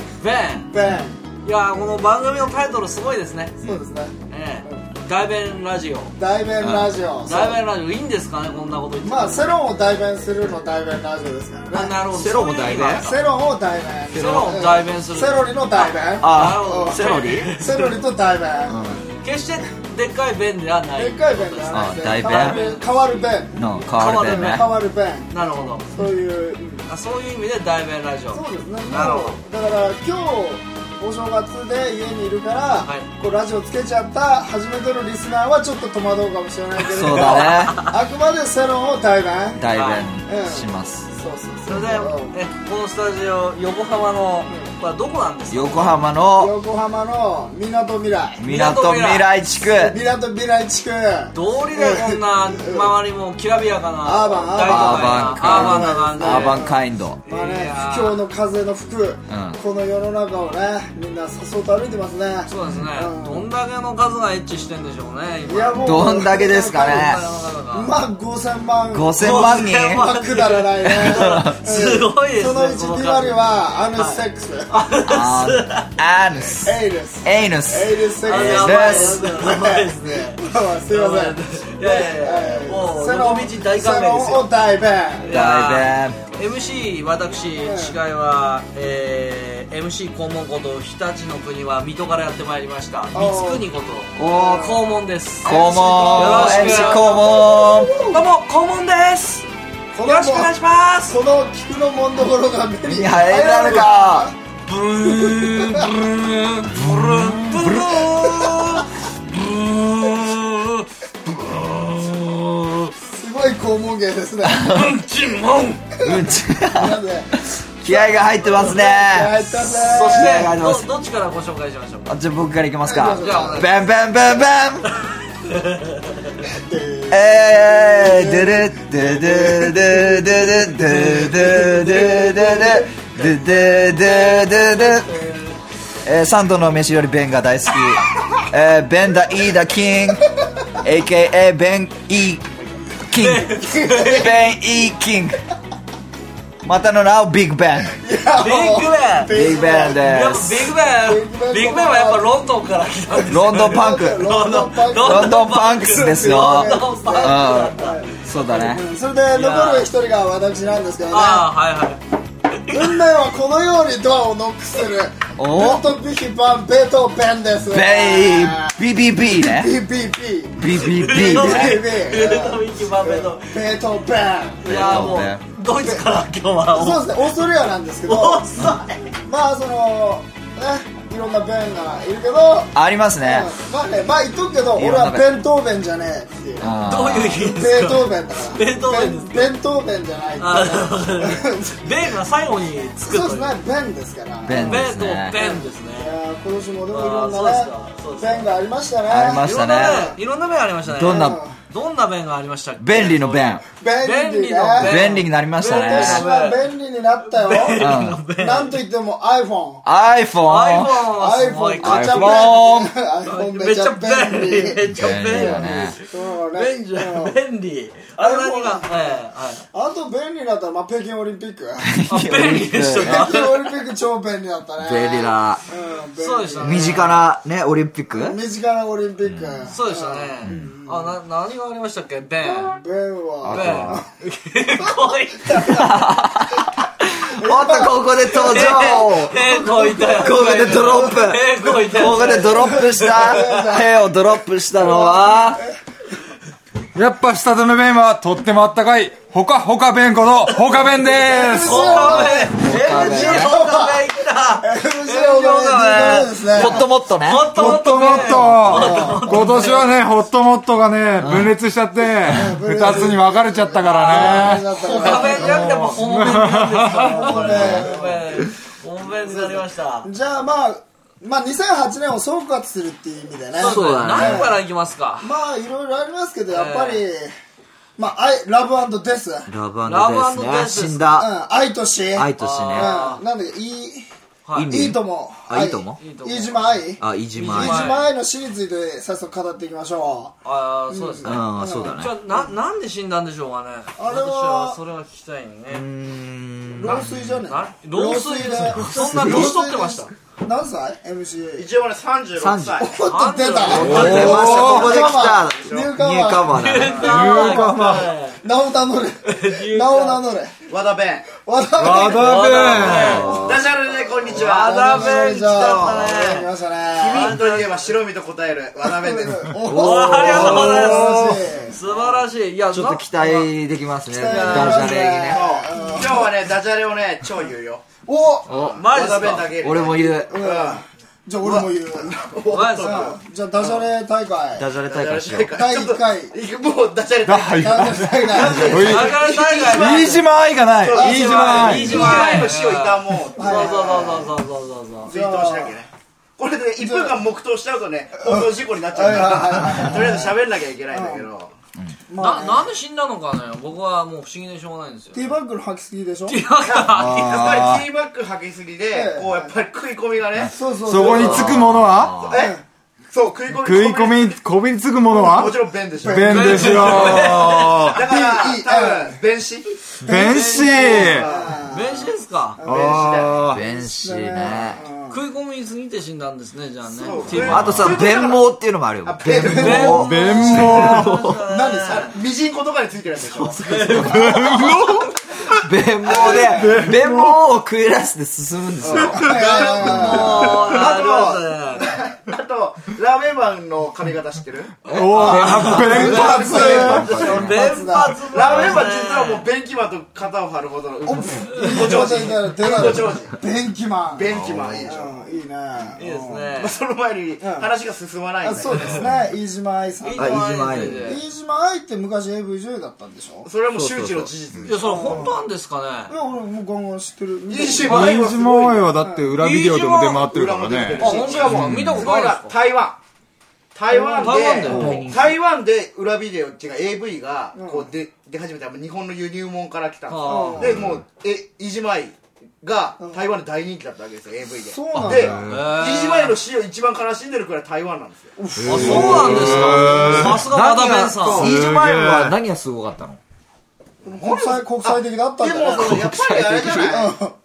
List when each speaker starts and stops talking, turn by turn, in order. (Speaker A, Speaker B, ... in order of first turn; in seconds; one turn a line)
Speaker A: 0.2-0.7
Speaker B: 0.7-1.2
Speaker A: 1.4-3.6
Speaker B: 3.6-4.9
Speaker A: 4.3-6.2
Speaker B: 6.2-7.6
Speaker C: 6.6-6.9
Speaker A: 7.3-9.5
Speaker B: 9.0-11.9
Speaker A: 11.7-13.2
Speaker C: 12.1-13.1
Speaker B: 13.0-19.0
Speaker A: 14.1-18.0
Speaker C: 16.2-17.5
Speaker C: 18.7-19.0
Speaker A: 19.2-23.2
Speaker B: 21.0-25.3
Speaker C: 21.7-22.6
Speaker C: 23.6-24.7
Speaker A: 23.9-24.7
Speaker A: 25.3-25.9
Speaker B: 25.9-26.9
Speaker A: 26.9-29.4
Speaker B: 28.3-39.6
Speaker A: 32.8-33.1
Speaker A: 36.8-37.9
Speaker C: 36.9-37.8
Speaker C: 39.5-41.1
Speaker A: 39.7-40.0
Speaker B: 40.3-42.3
Speaker A: 41.7-46.0
Speaker C: 45.5-46.5
Speaker B: 46.4-48.4
Speaker C: 48.4-50.0
Speaker A: 48.4-49.3
Speaker B: 49.7-53.0
Speaker A: 51.3-56.7
Speaker B: 54.0-63.5
Speaker C: 54.6-57.2
Speaker A: 57.2-58.2
Speaker C: 59.3-59.6
Speaker A: 62.5-67.9
Speaker B: 65.5-67.2
Speaker C: 65.8-67.2
Speaker B: 67.7-74.7
Speaker C: 68.9-70.1
Speaker A: 69.2-73.4
Speaker C: 70.9-71.6
Speaker A: 73.9-75.9
Speaker C: 75.0-79.3
Speaker B: 76.6-85.3
Speaker A: 78.2-84.5
Speaker C: 85.2-86.2
Speaker A: 85.2-97.4
Speaker B: 87.5-88.0
Speaker B: 93.1-93.7
Speaker C: 94.2-94.8
Speaker B: 94.2-94.8
Speaker C: 95.4-98.1
Speaker B: 95.6-98.2
Speaker A: 98.1-99.5
Speaker B: 99.9-100.5
Speaker A: 100.0-101.2
Speaker B: 101.1-104.3
Speaker C: 102.8-104.3
Speaker A: 104.7-110.9
Speaker B: 105.2-105.9
Speaker C: 106.8-107.8
Speaker A: 111.4-112.9
Speaker B: 113.0-114.7
Speaker C: 114.4-115.0
Speaker A: 114.7-115.8
Speaker C: 116.0-117.0
Speaker B: 116.7-120.5
Speaker C: 117.8-120.9
Speaker A: 119.7-122.2
Speaker C: 122.1-124.9
Speaker B: 122.8-123.7
Speaker A: 123.2-123.8
Speaker A: 125.5-126.0
Speaker B: 126.5-132.7
Speaker C: 127.1-135.1
Speaker A: 131.1-132.0
Speaker A: 133.2-135.6
Speaker C: 136.1-140.2
Speaker C: 140.8-142.5
Speaker C: 143.1-145.4
Speaker A: 143.2-144.3
Speaker C: 146.6-148.0
Speaker B: 148.0-150.1
Speaker A: 148.4-149.3
Speaker C: 149.3-150.7
Speaker A: 149.9-158.0
Speaker B: 150.9-152.3
Speaker C: 153.3-158.8
Speaker B: 153.5-161.5
Speaker A: 159.3-159.9
Speaker A: 161.1-162.0
Speaker B: 162.7-175.2
Speaker C: 165.4-165.9
Speaker C: 167.7-169.7
Speaker C: 170.6-171.9
Speaker A: 170.8-173.5
Speaker A: 174.6-177.2
Speaker C: 174.7-175.4
Speaker B: 176.7-178.7
Speaker A: 178.1-179.0
Speaker B: 179.2-186.8
Speaker C: 182.8-183.5
Speaker C: 184.7-185.4
Speaker C: 186.6-187.4
Speaker A: 186.8-189.5
Speaker B: 187.4-191.8
Speaker A: 190.4-193.5
Speaker B: 193.0-194.9
Speaker C: 194.4-195.4
Speaker A: 194.6-196.1
Speaker B: 195.4-200.1
Speaker A: 196.9-198.5
Speaker C: 199.1-200.2
Speaker A: 199.4-206.6
Speaker C: 200.8-201.4
Speaker B: 201.1-201.6
Speaker C: 202.8-203.6
Speaker B: 203.8-209.8
Speaker C: 204.8-206.2
Speaker A: 207.2-208.8
Speaker C: 207.7-208.2
Speaker C: 209.8-211.1
Speaker A: 210.4-212.6
Speaker B: 211.1-217.4
Speaker C: 211.8-212.9
Speaker A: 213.2-219.7
Speaker C: 214.9-215.9
Speaker B: 218.2-219.1
Speaker B: 219.7-221.9
Speaker C: 221.8-223.5
Speaker A: 222.1-223.7
Speaker B: 223.0-227.1
Speaker C: 224.8-225.6
Speaker A: 226.2-227.2
Speaker C: 226.6-228.4
Speaker B: 228.1-231.2
Speaker C: 229.2-229.7
Speaker A: 229.7-232.7
Speaker C: 230.4-230.8
Speaker B: 232.4-234.1
Speaker C: 233.4-234.1
Speaker A: 233.5-235.8
Speaker B: 235.5-236.2
Speaker C: 235.6-245.6
Speaker B: 237.4-240.7
Speaker A: 238.3-243.6
Speaker B: 242.1-244.0
Speaker B: 244.8-245.8
Speaker D: 246.9-252.2
Speaker A: 250.5-259.9
Speaker B: 251.0-256.9
Speaker C: 252.2-253.7
Speaker C: 256.4-257.8
Speaker D: 257.5-267.7
Speaker B: 257.9-259.8
Speaker C: 261.2-261.5
Speaker B: 262.2-266.0
Speaker A: 263.9-270.1
Speaker B: 267.0-268.3
Speaker C: 267.3-267.9
Speaker B: 269.1-274.6
Speaker A: 273.6-275.3
Speaker C: 273.6-274.5
Speaker B: 275.2-277.4
Speaker A: 276.5-277.1
Speaker B: 278.0-279.5
Speaker C: 279.5-281.3
Speaker A: 279.9-281.1
Speaker B: 281.2-284.1
Speaker C: 282.1-283.0
Speaker A: 282.4-283.2
Speaker A: 284.4-284.7
Speaker C: 284.6-286.0
Speaker B: 284.7-290.4
Speaker A: 286.0-288.1
Speaker C: 287.0-288.1
Speaker A: 290.4-295.9
Speaker B: 290.9-292.4
Speaker C: 291.2-292.2
Speaker B: 294.0-294.8
Speaker C: 295.7-297.4
Speaker B: 296.8-301.7
Speaker A: 297.5-300.1
Speaker C: 298.8-299.6
Speaker E: 301.6-302.9
Speaker C: 302.4-302.9
Speaker B: 302.8-310.6
Speaker A: 303.1-304.8
Speaker C: 303.7-307.1
Speaker D: 303.7-305.0
Speaker E: 303.9-305.9
Speaker A: 306.5-308.4
Speaker D: 307.0-308.1
Speaker A: 309.2-310.2
Speaker E: 310.7-311.3
Speaker B: 311.3-313.7
Speaker D: 311.8-313.3
Speaker A: 312.1-313.4
Speaker C: 313.0-313.6
Speaker E: 313.4-316.1
Speaker B: 314.2-317.4
Speaker A: 314.2-316.5
Speaker E: 316.9-319.6
Speaker A: 317.1-318.0
Speaker B: 318.8-322.2
Speaker C: 319.6-321.2
Speaker A: 319.7-323.5
Speaker C: 322.7-325.6
Speaker B: 324.1-326.4
Speaker A: 324.2-325.1
Speaker E: 325.3-327.9
Speaker B: 328.1-328.5
Speaker C: 328.5-330.4
Speaker E: 328.5-330.8
Speaker A: 328.8-329.5
Speaker B: 330.2-332.2
Speaker E: 331.4-333.9
Speaker A: 332.5-333.1
Speaker B: 332.8-334.7
Speaker C: 334.6-335.5
Speaker E: 334.8-344.3
Speaker B: 335.5-336.3
Speaker D: 337.2-342.2
Speaker B: 337.6-338.8
Speaker A: 338.4-340.2
Speaker A: 340.9-345.1
Speaker B: 340.9-341.5
Speaker B: 343.4-344.2
Speaker E: 345.1-351.5
Speaker B: 345.1-345.7
Speaker B: 346.8-347.2
Speaker B: 348.2-350.4
Speaker B: 350.9-351.2
Speaker B: 352.1-352.7
Speaker A: 352.2-355.3
Speaker B: 355.1-356.4
Speaker A: 356.3-357.4
Speaker E: 356.6-361.6
Speaker D: 356.9-357.9
Speaker B: 358.9-359.5
Speaker B: 360.5-361.7
Speaker D: 360.9-362.2
Speaker C: 361.2-362.3
Speaker E: 362.2-362.6
Speaker B: 362.3-362.6
Speaker E: 363.1-364.4
Speaker D: 363.5-368.0
Speaker B: 365.1-365.5
Speaker E: 365.2-367.1
Speaker B: 366.1-366.8
Speaker A: 366.3-367.9
Speaker E: 367.9-371.7
Speaker B: 368.0-369.2
Speaker D: 370.0-371.3
Speaker B: 370.1-373.1
Speaker A: 370.1-371.1
Speaker A: 371.7-372.6
Speaker E: 372.6-373.5
Speaker D: 372.7-373.6
Speaker C: 373.5-374.9
Speaker B: 373.7-375.2
Speaker A: 375.1-377.9
Speaker E: 376.9-380.1
Speaker C: 377.4-381.4
Speaker B: 379.4-380.8
Speaker A: 379.5-382.2
Speaker D: 379.6-381.2
Speaker B: 381.4-382.2
Speaker E: 381.9-384.2
Speaker A: 383.6-384.8
Speaker D: 384.1-385.1
Speaker C: 385.6-389.3
Speaker A: 386.1-386.6
Speaker E: 386.1-386.8
Speaker D: 386.5-387.3
Speaker E: 388.8-397.2
Speaker B: 389.1-390.7
Speaker A: 389.5-391.9
Speaker D: 394.9-396.8
Speaker C: 394.9-397.9
Speaker A: 395.2-396.1
Speaker B: 395.6-398.2
Speaker A: 396.7-399.5
Speaker E: 398.2-403.4
Speaker B: 401.1-404.3
Speaker A: 401.6-402.1
Speaker E: 404.1-405.3
Speaker C: 404.3-404.9
Speaker B: 404.9-406.5
Speaker A: 406.0-406.8
Speaker E: 406.6-409.1
Speaker B: 407.4-407.7
Speaker B: 408.4-413.5
Speaker A: 410.0-411.2
Speaker C: 410.1-411.1
Speaker E: 413.4-415.2
Speaker C: 413.7-414.6
Speaker A: 414.7-416.1
Speaker B: 414.8-415.4
Speaker B: 416.1-418.2
Speaker E: 417.5-419.0
Speaker D: 417.8-422.1
Speaker A: 417.9-418.1
Speaker B: 419.0-419.4
Speaker A: 419.4-420.3
Speaker E: 420.3-423.0
Speaker A: 421.0-422.6
Speaker C: 421.5-422.0
Speaker E: 423.8-438.3
Speaker B: 423.9-425.0
Speaker A: 424.2-425.1
Speaker C: 424.7-425.3
Speaker B: 427.5-427.9
Speaker A: 430.1-430.7
Speaker B: 430.2-430.8
Speaker B: 434.6-435.4
Speaker C: 435.0-435.6
Speaker D: 435.0-435.4
Speaker A: 435.5-436.4
Speaker B: 438.4-440.4
Speaker C: 438.6-443.2
Speaker D: 438.6-440.5
Speaker A: 438.7-441.5
Speaker E: 441.2-441.5
Speaker D: 441.4-442.4
Speaker B: 444.0-446.1
Speaker E: 444.1-447.2
Speaker C: 445.6-447.1
Speaker B: 446.7-447.4